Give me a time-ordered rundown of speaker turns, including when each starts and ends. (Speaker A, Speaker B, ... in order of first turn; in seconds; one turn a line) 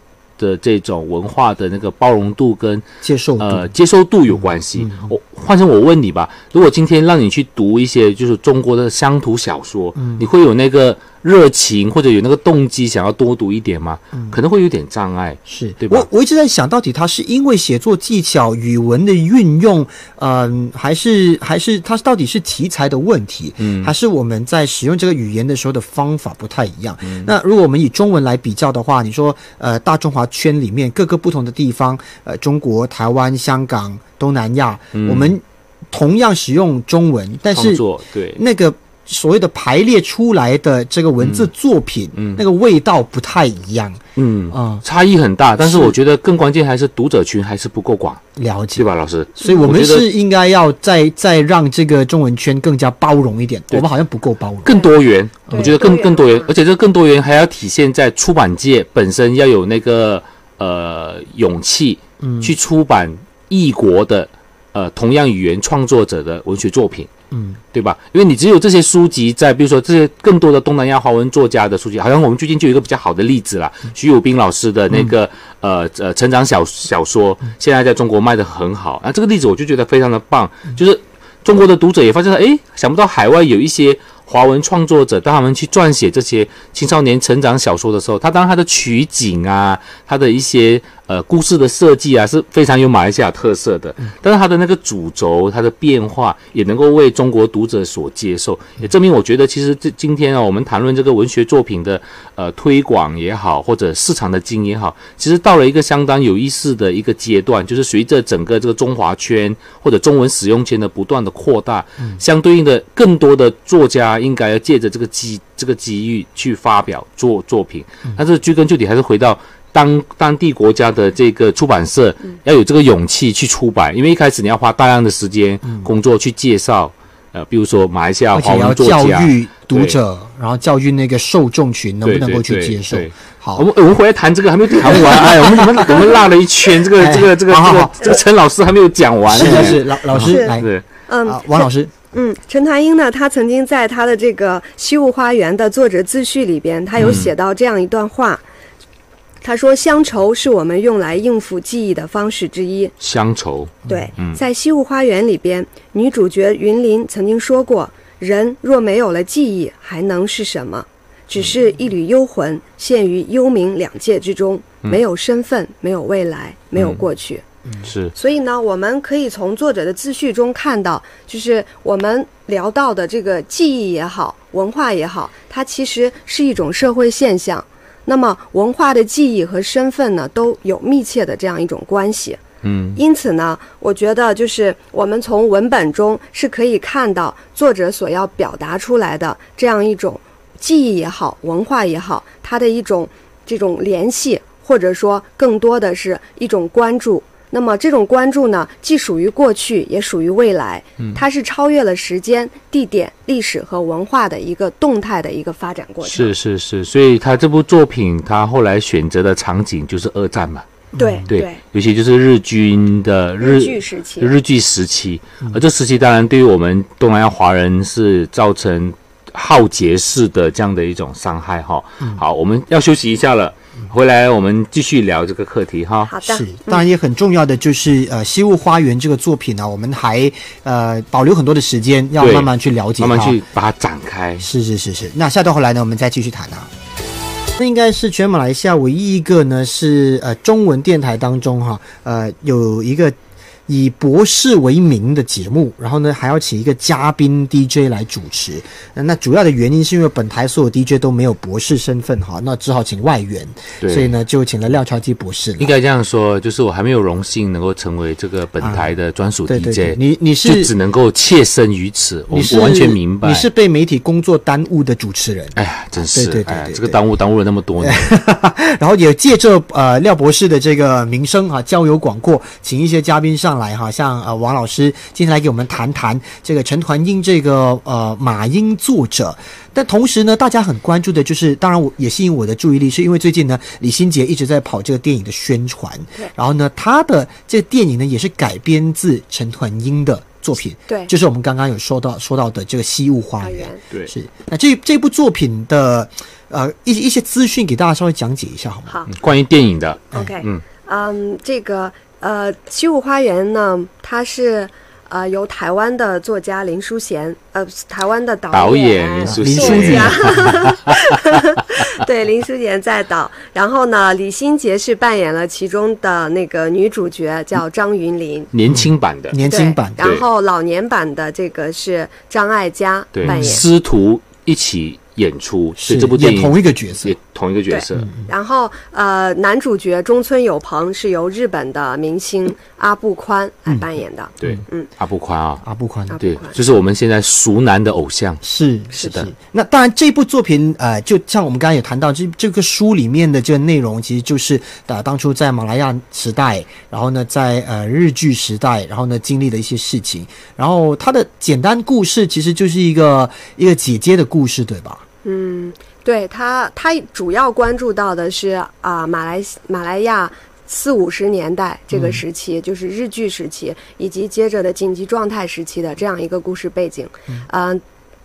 Speaker A: 0.4-2.9
Speaker B: 3.0-3.7
Speaker A: 3.4-16.1
Speaker B: 4.8-5.1
Speaker B: 10.0-10.3
Speaker B: 15.5-37.8
Speaker A: 23.6-23.9
Speaker A: 34.9-35.3
Speaker A: 37.5-38.4
Speaker B: 38.4-44.0
Speaker A: 41.2-41.5
Speaker A: 42.1-42.4
Speaker A: 44.2-48.2
Speaker B: 44.5-44.8
Speaker B: 45.6-46.0
Speaker B: 48.4-48.9
Speaker A: 48.8-50.1
Speaker B: 49.4-54.8
Speaker A: 54.6-67.1
Speaker B: 55.5-55.8
Speaker C: 55.5-56.5
Speaker B: 62.2-62.5
Speaker B: 67.3-67.6
Speaker A: 67.7-130.0
Speaker B: 128.3-133.7
Speaker A: 132.0-140.8
Speaker B: 134.8-136.2
Speaker B: 136.8-138.2
Speaker B: 139.3-140.7
Speaker C: 140.2-140.6
Speaker C: 141.1-148.4
Speaker B: 141.2-141.9
Speaker A: 147.0-147.3
Speaker C: 149.4-152.9
Speaker A: 153.0-154.4
Speaker C: 153.9-167.4
Speaker A: 166.8-167.0
Speaker A: 167.8-168.1
Speaker C: 168.2-182.4
Speaker A: 182.6-183.0
Speaker C: 183.0-206.3
Speaker A: 206.0-210.7
Speaker B: 210.9-211.3
Speaker C: 211.0-211.6
Speaker A: 211.3-226.1
Speaker C: 213.4-214.4
Speaker C: 226.1-226.9
Speaker B: 226.2-233.4
Speaker A: 232.2-234.5
Speaker B: 234.4-236.7
Speaker B: 237.6-243.2
Speaker B: 243.7-255.7
Speaker A: 253.8-254.1
Speaker A: 255.6-263.5
Speaker B: 258.6-258.9
Speaker B: 259.5-260.7
Speaker B: 262.3-265.6
Speaker A: 265.6-268.1
Speaker B: 266.1-267.0
Speaker B: 267.8-299.0
Speaker C: 293.4-293.8
Speaker C: 298.9-299.1
Speaker A: 299.1-300.6
Speaker C: 300.1-318.5
Speaker A: 308.5-311.2
Speaker B: 309.3-310.6
Speaker A: 318.5-319.4
Speaker B: 318.7-320.0
Speaker C: 319.5-323.6
Speaker A: 323.1-328.1
Speaker B: 323.2-323.6
Speaker B: 325.8-327.2
Speaker C: 327.7-334.9
Speaker B: 327.9-328.3
Speaker A: 334.4-335.6
Speaker B: 335.6-336.2
Speaker C: 336.1-336.6
Speaker A: 336.2-338.4
Speaker B: 338.4-355.0
Speaker A: 339.0-339.3
Speaker C: 355.2-367.8
Speaker B: 361.9-362.2